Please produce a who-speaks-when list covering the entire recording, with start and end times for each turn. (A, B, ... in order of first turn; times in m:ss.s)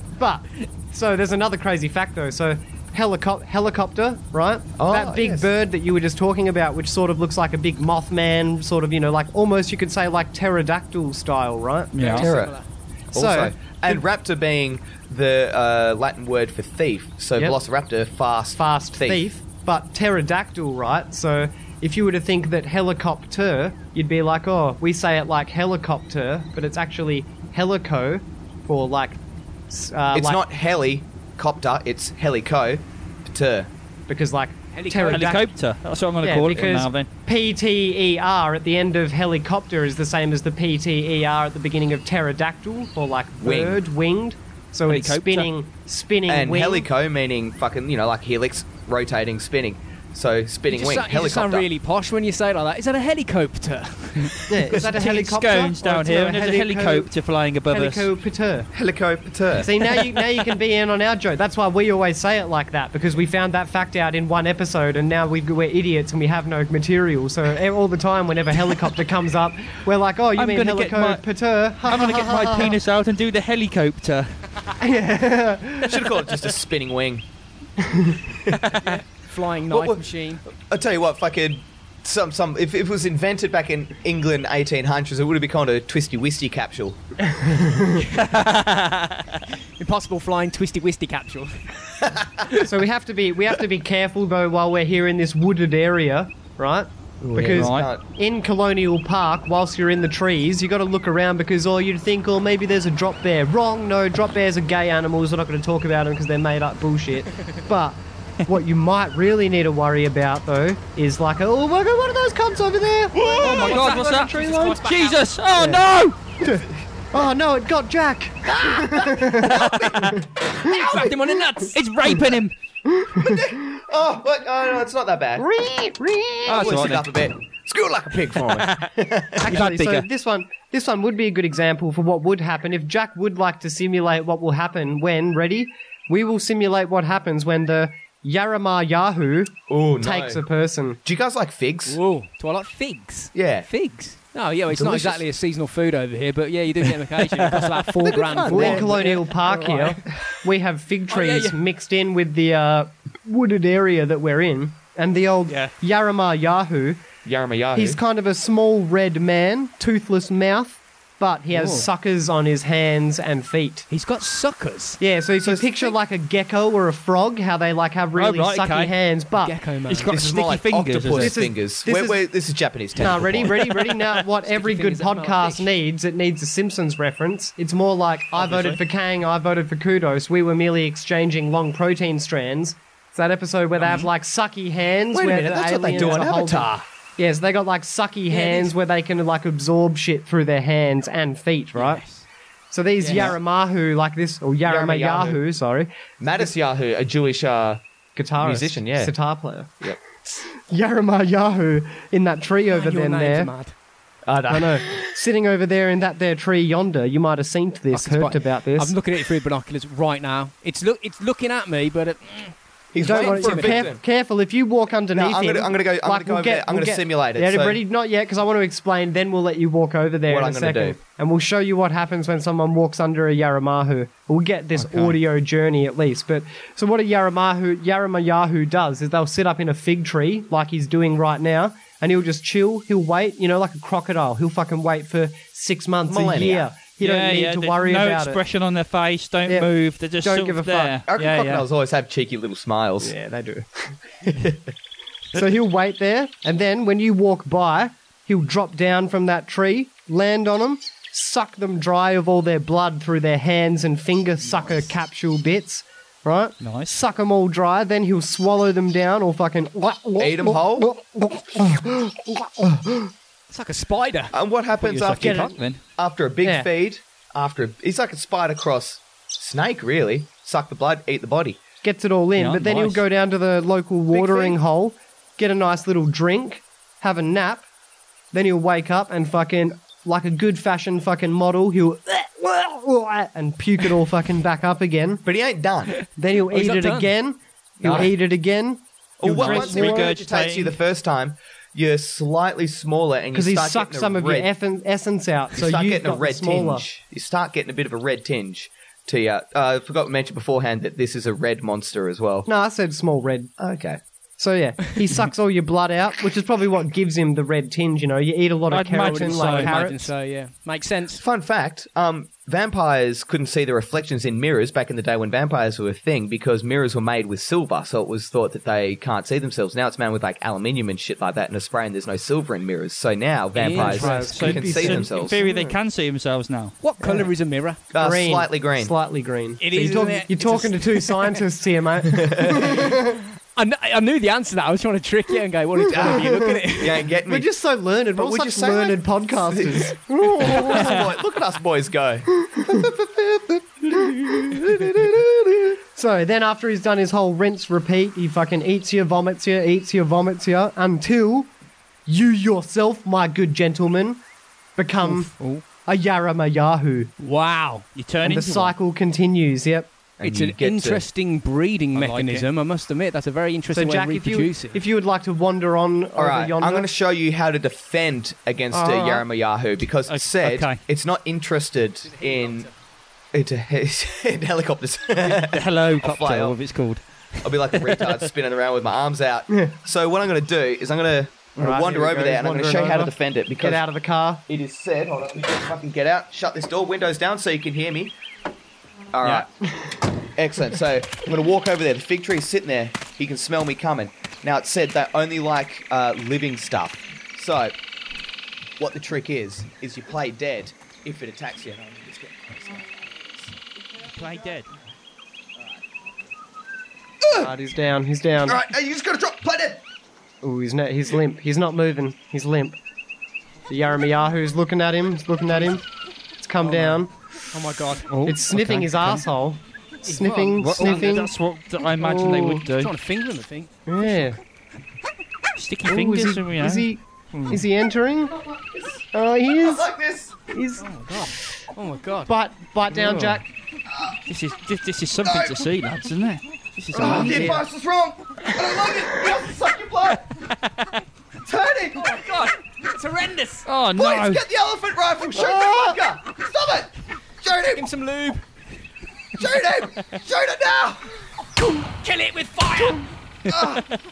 0:00.2-0:11.9 A
0:04.8-0:05.5 B
0:11.9-0:12.3 C
0:12.0-0:12.7 D
0:12.2-0:12.5 B
0:13.1-0:14.0 A
0:13.1-0:19.2 B
0:18.6-0:29.2 A
0:29.7-0:30.4 A
0:30.1-0:33.7 B
0:34.1-0:35.5 A
0:34.7-0:35.4 D
0:35.1-0:37.1 C
0:36.2-0:46.9 A
0:43.4-0:43.8 B
0:44.9-0:45.5 C
0:46.3-0:51.7 B
0:50.7-0:54.3 D
0:54.5-0:57.1 A
0:54.8-0:58.1 C
0:57.7-0:58.7 A
0:58.7-0:59.8 B
0:59.5-1:12.8 A
1:10.3-1:11.2 C
1:11.8-1:14.4 C
1:14.8-1:16.0 A
1:15.8-1:17.2 B
1:17.8-1:18.2 A
1:18.4-1:18.7 B
1:18.8-1:20.4 D
1:19.7-1:27.0 B
1:27.4-1:27.9 A
1:28.1-1:29.2 C
1:29.8-1:31.6 D
1:32.0-1:32.5 B
1:32.6-1:54.8 A
1:37.2-1:38.0 B
1:37.5-1:37.9 C
1:53.2-1:53.7 B
1:53.4-1:56.2 C
1:53.4-1:55.3 D
1:56.4-2:01.2 A
1:58.4-2:01.2 B
1:59.5-2:00.0 C
2:00.9-2:01.7 D
2:01.0-2:02.5 C
2:02.9-2:03.4 A
2:03.1-2:05.5 B
2:05.4-2:06.7 A
2:06.5-2:07.1 C
2:06.5-2:09.6 B
2:08.5-2:08.8 C
2:09.4-2:21.0 A
2:09.4-2:10.1 C
2:19.7-2:20.4 B
2:21.0-2:22.0 B
2:21.9-2:30.0 D
2:23.3-2:23.7 B
2:24.7-2:25.2 B
2:28.1-2:29.0 B
2:28.4-2:37.0 A
2:31.1-2:31.6 D
2:35.5-2:35.7 C
2:37.2-2:38.0 B
2:37.7-2:43.9 A
2:41.5-2:41.9 D
2:43.9-2:45.0 D
2:45.0-2:49.6 A
2:45.4-2:45.9 B
2:48.1-2:48.9 C
2:49.4-2:50.1 D
2:49.9-2:51.4 C
2:50.1-2:53.7 B
2:51.1-2:52.2 A
2:53.0-3:12.0 A
2:54.4-2:55.7 D
2:58.4-2:58.8 C
3:05.1-3:06.8 B
3:08.3-3:08.7 D
3:11.8-3:12.2 C
3:12.7-3:15.9 A
3:13.0-3:13.3 D
3:14.6-3:15.4 B
3:16.2-3:17.8 B
3:18.2-3:19.9 A
3:18.4-3:19.1 B
3:19.8-3:20.4 B
3:20.6-3:23.5 A
3:22.7-3:23.7 D
3:24.2-3:25.1 B
3:24.5-3:28.9 A
3:27.9-3:33.9 D
3:32.9-3:34.0 B
3:33.0-3:58.4 A
3:35.1-3:37.8 B
3:40.3-3:41.0 B
3:44.8-3:45.2 C
3:56.1-3:56.7 B
3:57.0-4:01.6 C
3:59.5-4:01.0 A
4:01.1-4:03.1 B
4:03.0-4:04.0 A
4:04.3-4:04.6 B
4:05.3-4:23.1 A
4:16.6-4:16.9 C
4:20.2-4:20.9 B
4:23.5-4:24.3 D
4:24.3-4:31.6 B
4:24.8-4:25.8 C
4:25.2-4:25.6 A
4:26.4-4:26.7 A
4:31.8-4:37.6 A
4:32.4-4:33.0 C
4:34.1-4:34.6 B
4:38.3-4:45.2 A
4:45.2-4:46.0 B
4:46.2-4:50.2 A
4:46.5-4:47.1 D
4:47.8-4:48.1 B
4:49.2-4:54.5 B
4:49.3-4:50.7 C
4:53.3-4:56.8 A
4:55.5-5:02.5 B
5:02.4-5:03.5 A
5:03.6-5:04.0 B
5:04.4-5:10.1 A
5:08.7-5:09.8 C
5:09.0-5:11.2 D
5:11.2-5:25.4 B
5:23.5-5:24.4 D
5:23.7-5:25.8 A
5:23.8-5:26.7 C
5:26.8-5:27.8 D
5:27.9-5:28.9 B
5:27.9-5:33.2 A
5:29.6-5:31.4 D
5:32.1-5:32.8 B
5:33.6-5:37.1 D
5:35.9-5:37.5 B
5:35.9-5:36.6 A
5:37.2-5:41.0 A
5:38.1-5:42.3 B
5:42.4-5:51.5 A
5:44.5-5:45.5 B
5:52.0-5:54.2 A
5:54.8-5:55.3 A
5:55.0-5:55.6 C
5:55.8-5:57.1 A
5:57.2-5:57.8 D
5:57.9-5:58.7 C
5:58.2-5:59.9 A
6:00.2-6:01.0 B
6:00.2-6:04.8 D
6:01.9-6:02.4 C
6:03.7-6:06.9 A
6:06.1-6:12.7 B
6:08.7-6:09.2 A
6:10.1-6:10.8 C
6:12.0-6:12.7 D
6:13.3-6:16.6 B
6:15.2-6:18.2 C
6:17.4-6:23.8 B
6:21.6-6:24.4 A
6:24.5-6:28.1 B
6:29.1-6:29.5 B
6:30.4-6:37.8 B
6:38.8-6:43.6 B
6:44.1-6:44.7 C
6:45.5-6:45.8 B
6:47.2-6:47.5 B
6:47.3-6:48.6 A
6:48.4-6:49.8 B
6:50.4-6:52.8 A
6:53.7-6:55.8 A
6:56.4-6:57.1 A
6:56.6-6:58.1 D
6:58.1-6:59.2 C
6:58.2-7:01.3 A
7:00.0-7:01.2 D
7:00.6-7:02.9 C
7:02.0-7:02.6 A
7:02.7-7:04.2 D
7:03.9-7:04.4 A
7:05.6-7:07.6 C
7:05.8-7:08.4 A
7:08.5-7:08.9 B
7:09.1-7:09.9 A
7:09.5-7:10.4 B
7:10.5-7:10.8 A
7:10.8-7:12.3 D
7:12.3-7:13.4 A
7:13.0-7:13.4 C
7:13.9-7:14.2 B
7:14.3-7:17.6 C
7:15.2-7:15.7 B
7:16.9-7:20.3 B
7:16.9-7:17.5 A
7:17.0-7:17.6 D
7:21.4-7:22.4 B
7:22.0-7:23.7 D
7:23.6-7:24.4 C
7:23.9-7:27.9 B
7:25.4-7:25.9 A
7:27.6-7:28.4 D
7:29.4-7:31.1 B
7:31.6-7:33.1 D
7:33.5-7:33.8 B